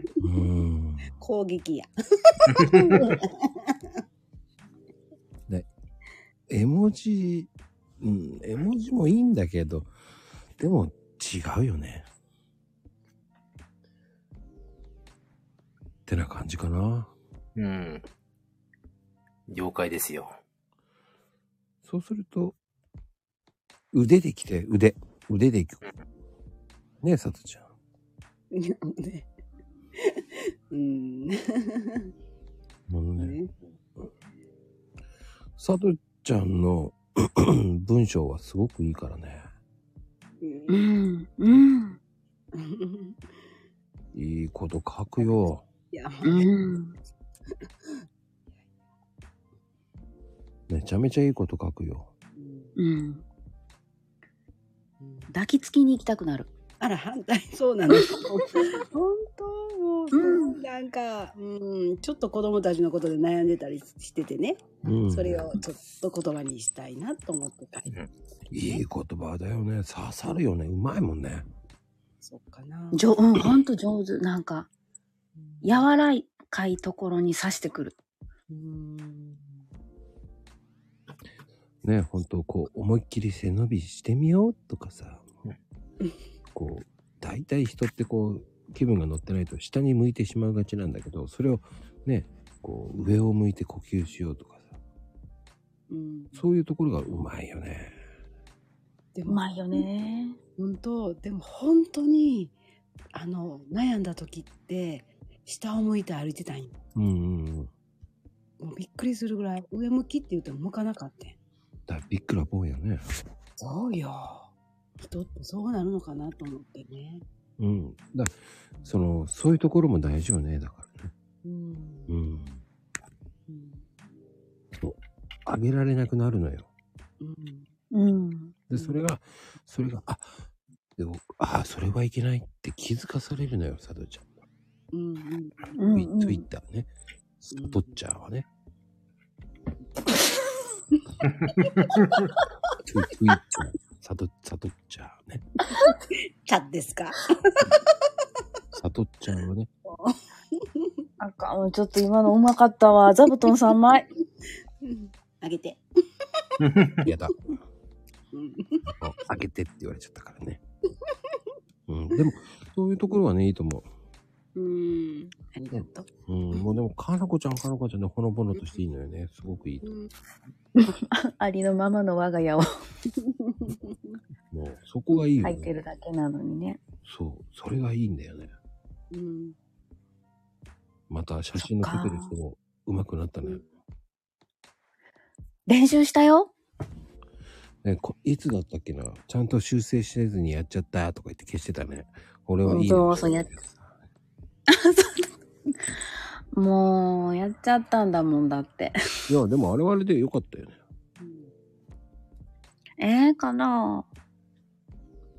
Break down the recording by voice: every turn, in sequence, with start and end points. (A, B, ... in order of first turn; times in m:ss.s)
0:00.2-0:01.1 A
0:01.2-0:03.8 B
0:02.5-0:03.0 C
0:06.5-0:09.9 A
0:10.6-0:12.0 A
0:16.1-0:17.1 A
0:17.6-0:18.0 C
0:19.5-0:20.3 C
0:21.8-0:22.6 A
0:23.9-0:25.8 A
0:27.0-0:27.7 A
0:28.5-0:29.3 B
0:30.0-0:32.1 B
0:32.9-0:33.4 A
0:33.2-0:33.5 B
0:35.6-0:39.5 A
0:40.4-0:40.9 B
0:40.7-0:42.0 D
0:42.5-0:43.3 B
0:44.1-0:45.6 A
0:45.2-0:46.5 B
0:46.2-0:47.0 D
0:47.6-0:48.0 B
0:50.7-0:52.1 A
0:52.4-0:52.7 B
0:52.8-0:53.2 D
0:55.0-0:55.3 B
0:55.3-0:56.5 D
0:56.8-1:07.9 B
1:00.1-1:00.6 D
1:04.8-1:05.6 A
1:08.5-1:11.4 A
1:12.2-1:13.0 B
1:12.9-1:14.7 D
1:15.4-1:15.9 B
1:15.6-1:17.9 D
1:18.5-1:19.6 B
1:21.8-1:25.3 A
1:26.5-1:34.8 A
1:35.9-1:36.4 B
1:36.3-1:37.9 A
1:39.1-1:39.9 B
1:39.3-1:40.4 D
1:40.6-1:42.5 B
1:43.1-1:46.8 B
1:46.9-1:47.7 A
1:48.6-1:51.4 B
1:51.9-1:53.0 A
1:53.6-1:54.5 B
1:55.0-1:57.2 B
1:57.6-2:01.1 A
2:01.4-2:02.2 B
2:02.1-2:02.6 A
2:03.5-2:03.8 B
2:04.8-2:06.7 A
2:07.2-2:07.7 B
2:07.9-2:08.6 D
2:08.7-2:10.4 A
2:08.7-2:09.0 B
2:11.0-2:14.3 A
2:14.9-2:15.8 B
2:15.8-2:16.4 D
2:15.9-2:16.9 A
2:17.4-2:18.4 A
2:17.5-2:18.0 B
2:21.6-2:22.2 B
2:22.8-2:25.4 A
2:25.8-2:27.9 B
2:28.8-2:29.7 A
2:29.8-2:31.0 B
2:31.2-2:34.0 D
2:34.8-2:35.8 B
2:36.6-2:37.1 C
2:37.0-2:37.4 A
2:38.3-2:38.9 B
2:39.0-2:40.6 A
2:41.0-2:41.5 B
2:41.9-2:43.9 A
2:44.6-2:46.6 B
2:45.7-2:49.9 A
2:49.8-2:50.1 B
2:50.8-2:52.7 D
2:53.2-2:54.2 B
2:54.5-2:55.7 A
2:55.4-2:56.8 D
2:57.0-2:58.5 A
2:59.1-2:59.6 B
3:01.1-3:03.6 A
3:01.6-3:02.3 D
3:05.7-3:06.5 D
3:07.8-3:13.9 A
3:12.6-3:13.5 D
3:14.7-3:15.3 D
3:16.5-3:19.3 D
3:19.3-3:20.8 A
3:21.2-3:21.5 B
3:23.0-3:24.0 D